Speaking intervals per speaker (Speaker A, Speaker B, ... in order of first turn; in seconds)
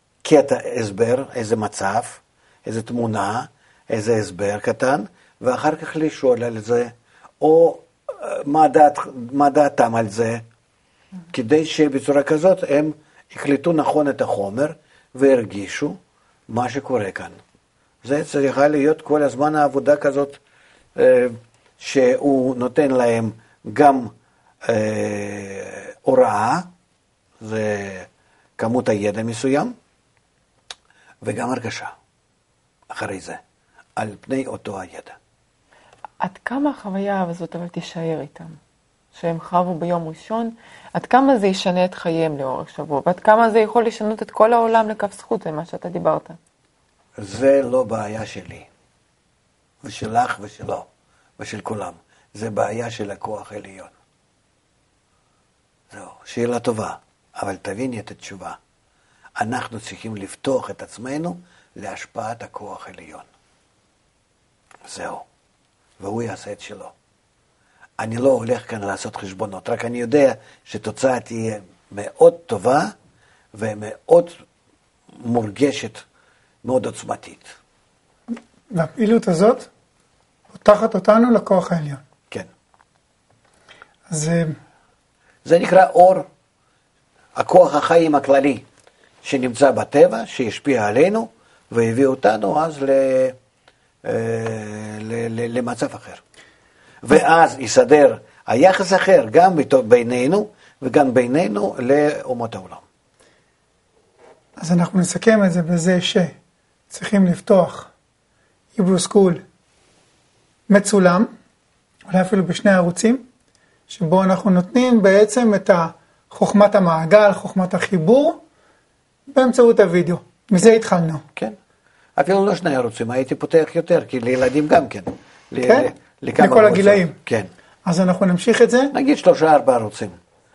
Speaker A: 0.2-10.4, 11.3-16.0, 16.5-17.4, 18.0-20.4, 20.9-24.1, 24.6-26.7, 27.4-29.8, 31.2-31.9, 32.9-33.4, 34.0-35.2, 47.2-48.7, 49.8-50.9, 51.4-53.9, 55.9-58.6, 59.4-63.3, 64.8-65.2, 66.0-66.9, 68.0-72.9, 73.5-74.4, 75.1-76.0, 76.6-77.6, 85.5-86.3, 87.3-88.7, 89.2-93.4, 94.0-96.2, 97.0-102.8, 122.2-127.5, 128.9-130.2
Speaker B: 36.2-38.6, 39.1-46.4
Speaker C: 78.7-79.7, 80.5-82.0, 84.1-84.6, 104.6-106.3, 106.9-107.9, 108.8-109.4, 110.7-111.3, 112.1-113.3, 113.9-118.4, 119.3-121.2, 125.6-127.2, 127.9-128.9